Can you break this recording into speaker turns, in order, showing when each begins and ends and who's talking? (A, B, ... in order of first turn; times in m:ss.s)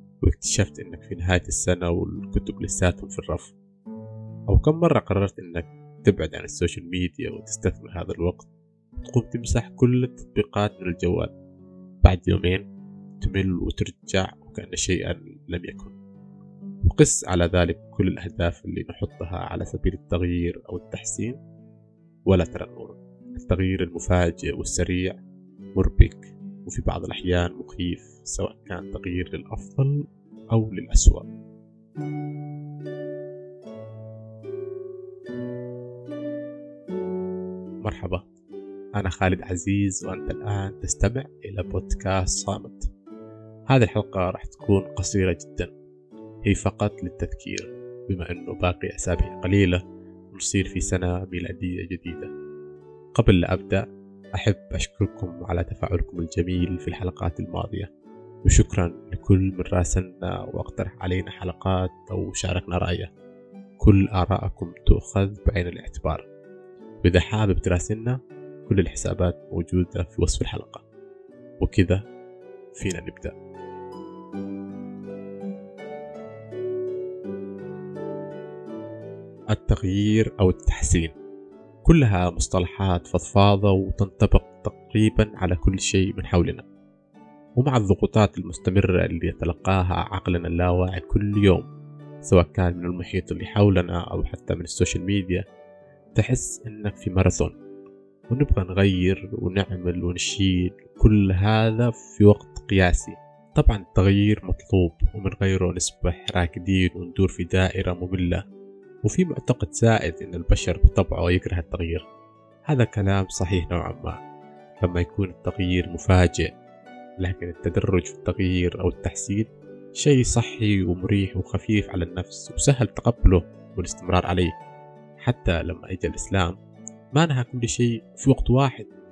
0:00.2-0:03.6 A
0:04.5-0:08.5 A
0:09.0-0:11.3 A
0:12.0-0:12.6 A
0:13.2-0:16.0 A
0:16.9-0:21.4 A
0:22.3-0:25.2 A
0:25.8-0:31.3 A
0:37.8-0:38.2 A
0:39.0-0:42.9 A
0:43.7-0:45.7 A
0:46.4-0:49.8 A
0:50.3-0:52.3 A
0:53.1-0:57.9 A
0:58.4-1:03.1 A
1:03.8-1:06.3 A
1:07.0-1:10.8 A
1:11.6-1:12.0 A
1:12.7-1:13.3 A
1:19.5-1:21.1 A
1:21.8-1:26.6 A
1:27.6-1:31.7 A
1:32.2-1:35.4 A
1:36.2-1:37.5 A
1:38.3-1:48.4 A
1:49.0-1:52.0 A
1:52.7-1:54.2 A
1:54.8-1:56.5 A
1:57.2-2:04.5 A
2:05.2-2:06.6 A
2:07.1-2:08.9 A